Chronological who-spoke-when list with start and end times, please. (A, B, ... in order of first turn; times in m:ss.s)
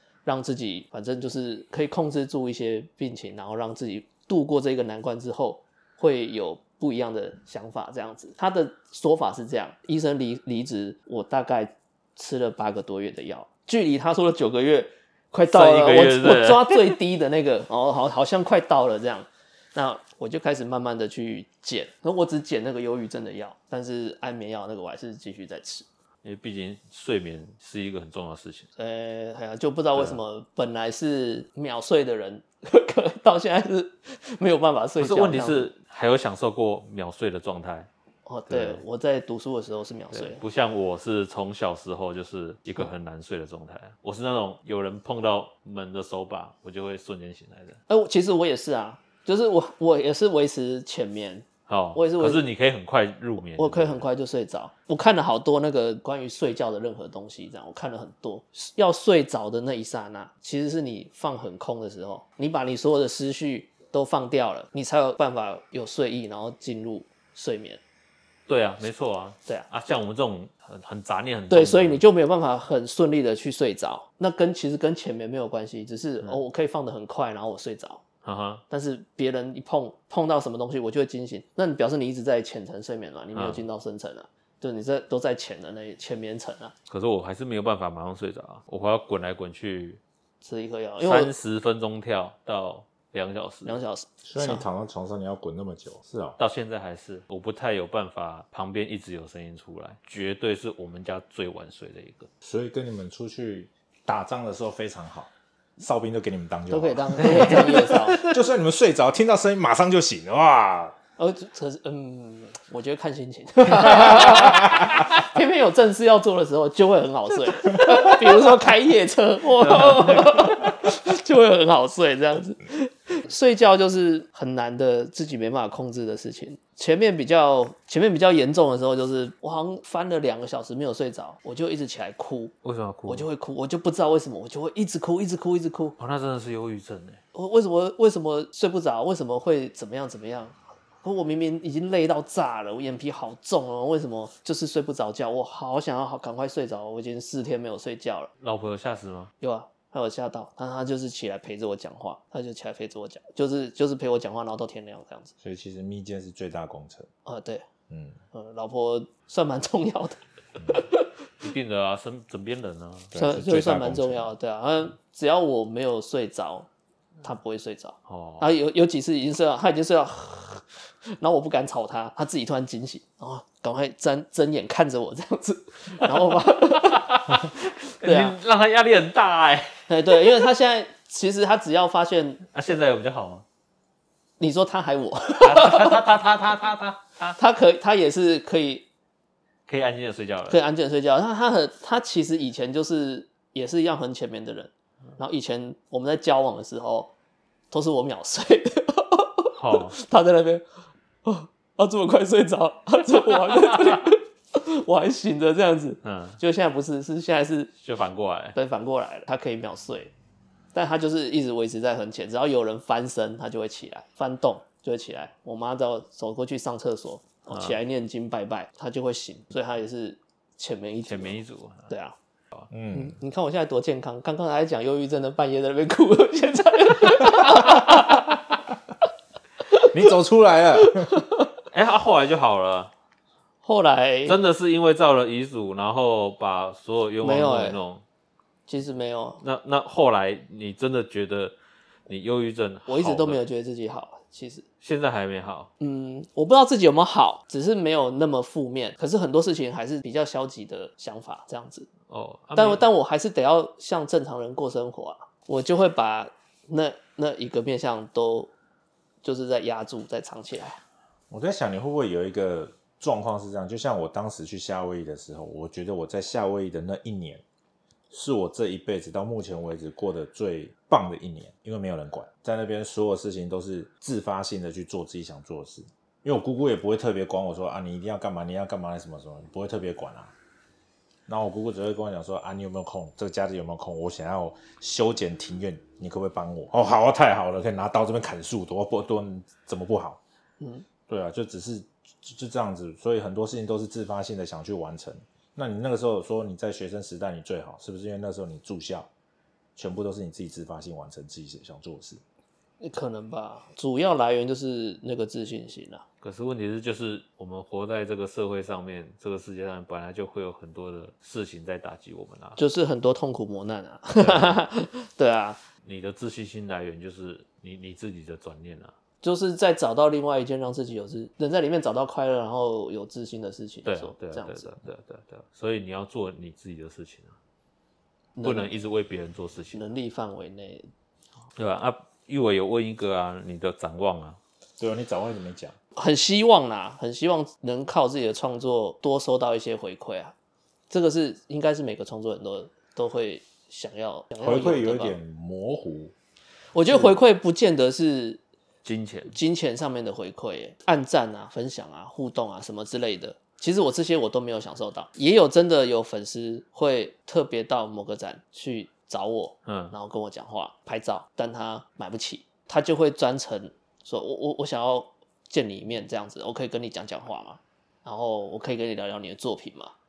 0:00.3-0:25.9 A
0:15.5-0:17.0 B
0:26.2-0:28.7 B
0:28.8-0:35.7 A
0:35.0-0:37.9 B
0:38.3-0:40.4 A
0:38.5-0:38.8 B
0:40.1-0:47.8 B
0:47.9-0:52.4 A
0:51.7-0:54.0 B
0:53.6-1:07.8 A
1:08.5-1:12.0 B
1:11.5-1:18.0 A
1:18.2-1:18.6 B
1:18.7-1:26.7 A
1:23.4-1:23.6 B
1:26.9-1:30.0 B
1:30.4-1:31.3 A
1:31.0-1:33.8 B
1:33.6-1:34.6 A
1:34.2-1:36.4 C
1:36.4-1:42.3 B
1:42.4-1:51.0 C
1:46.7-1:48.4 A
1:47.2-1:48.0 B
1:51.2-2:12.5 A
1:59.7-2:00.6 B
2:12.6-2:13.3 B
2:13.1-2:16.0 A
2:16.0-2:17.2 B
2:17.3-2:28.3 A
2:28.4-2:29.3 B
2:29.4-2:35.3 A
2:35.4-2:37.1 C
2:37.3-2:37.7 A
2:37.9-2:38.2 C
2:38.3-2:41.1 A
2:40.6-2:40.9 C
2:41.4-2:43.1 B
2:43.1-2:44.3 C
2:43.2-2:46.7 A
2:47.2-2:58.4 A
2:48.1-2:48.5 B
2:56.0-3:00.4 B
2:59.9-3:02.4 A
3:02.5-3:03.4 B
3:04.4-3:06.0 A
3:05.4-3:07.4 B
3:07.4-3:08.9 A
3:09.7-3:10.6 B
3:10.5-3:17.1 A
3:17.7-3:20.6 A
3:19.6-3:20.0 B
3:21.2-3:27.7 A
3:26.0-3:26.4 B
3:27.8-3:28.6 B
3:28.6-3:30.1 A
3:30.7-3:42.2 A
3:41.1-3:41.9 B
3:42.7-3:43.2 C
3:42.9-3:48.4 A
3:49.9-3:51.2 C
3:50.8-3:51.5 A
3:51.7-3:52.9 B
3:53.6-3:54.4 A
3:54.3-3:58.0 B
3:57.2-3:57.8 A
3:58.7-3:59.4 A
3:59.4-4:01.6 B
4:02.1-4:03.4 B
4:02.9-4:04.6 A
4:04.8-4:05.7 B
4:05.8-4:11.9 A
4:12.1-4:12.9 B
4:12.6-4:18.5 A
4:19.2-4:20.8 A
4:21.3-4:27.4 C
4:28.1-4:40.3 C
4:41.3-4:50.2 C
4:50.6-4:50.9 A
4:51.1-4:59.1 C
4:59.8-5:02.2 C
5:02.8-5:06.0 A
5:06.2-5:12.6 B
5:12.6-5:15.6 A
5:14.2-5:14.6 B
5:15.8-5:18.9 B
5:19.2-5:24.7 A
5:23.9-5:27.4 B
5:28.4-5:28.7 A
5:28.4-5:29.8 B
5:29.7-5:30.9 A
5:31.6-5:34.4 B
5:34.8-5:35.7 C
5:36.0-5:40.3 A
5:40.9-5:45.2 A
5:44.4-5:46.1 C
5:46.7-5:48.4 A
5:48.8-5:49.4 B
5:49.3-6:09.9 A
5:59.7-5:59.9 B